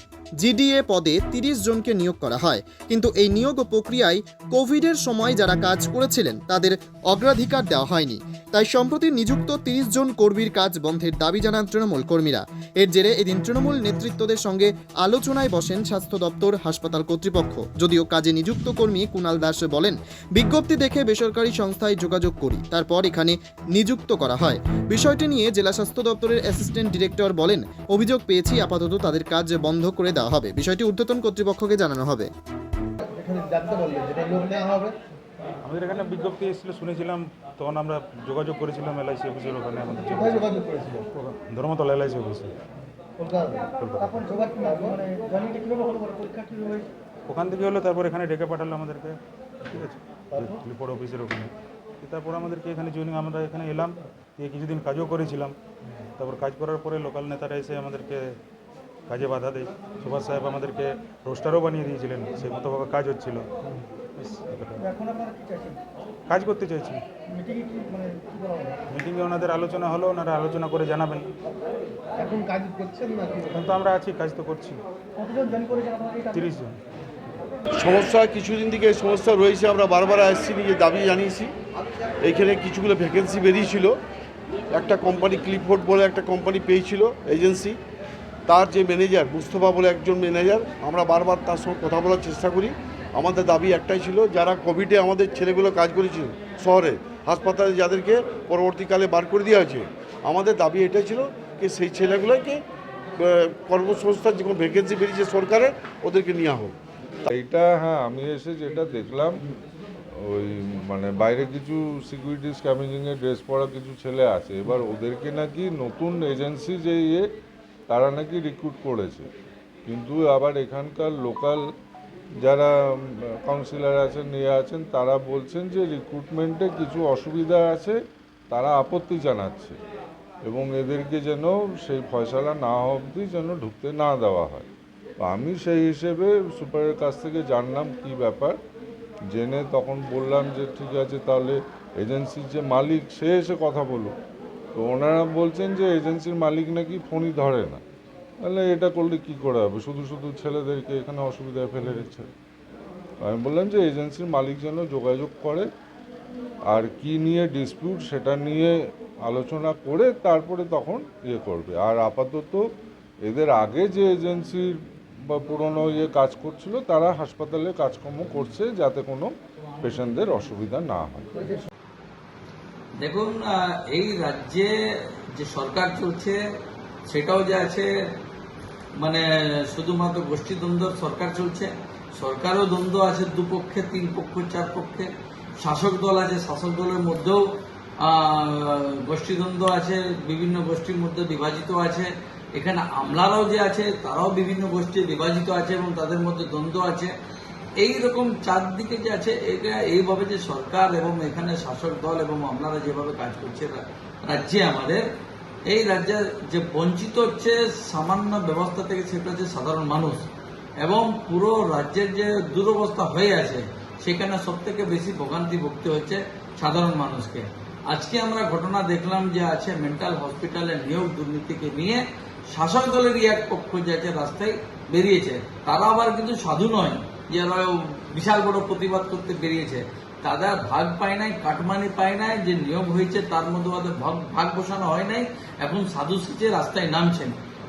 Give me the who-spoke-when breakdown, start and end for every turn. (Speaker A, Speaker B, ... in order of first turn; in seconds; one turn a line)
Speaker A: 0.4-32.3
Speaker B: 33.2-34.9
Speaker C: 35.6-42.5
Speaker C: 43.5-44.5
Speaker B: 44.5-46.3
Speaker C: 47.3-55.5
Speaker C: 56.2-58.4
Speaker C: 59.1-63.5
Speaker C: 64.2-65.1
Speaker C: 66.3-67.0
Speaker B: 67.9-68.2
Speaker C: 68.9-71.3
Speaker B: 72.3-73.4
Speaker C: 73.5-74.8
Speaker C: 75.7-76.8
Speaker D: 77.8-81.5
Speaker D: 82.2-84.0
Speaker D: 84.7-87.8
Speaker D: 88.5-102.6
Speaker D: 103.2-106.7
Speaker E: 107.3-109.4
Speaker E: 110.2-117.2
Speaker E: 117.9-119.3
Speaker E: 119.9-121.6
Speaker E: 122.4-128.0
Speaker E: 128.5-129.8
Speaker E: 130.5-134.7
Speaker E: 135.2-138.6
Speaker E: 139.3-144.1
Speaker E: 144.8-147.8
Speaker E: 148.4-152.3
Speaker E: 153.2-155.7
Speaker E: 156.7-162.6
Speaker E: 163.2-164.8
Speaker E: 165.3-171.3
Speaker F: 173.0-174.7
Speaker F: 175.3-176.4
Speaker F: 177.1-177.9
Speaker F: 179.0-185.1
Speaker F: 185.6-187.4
Speaker F: 188.0-197.1
Speaker F: 197.8-205.0
Speaker F: 205.7-210.3
Speaker F: 210.8-237.3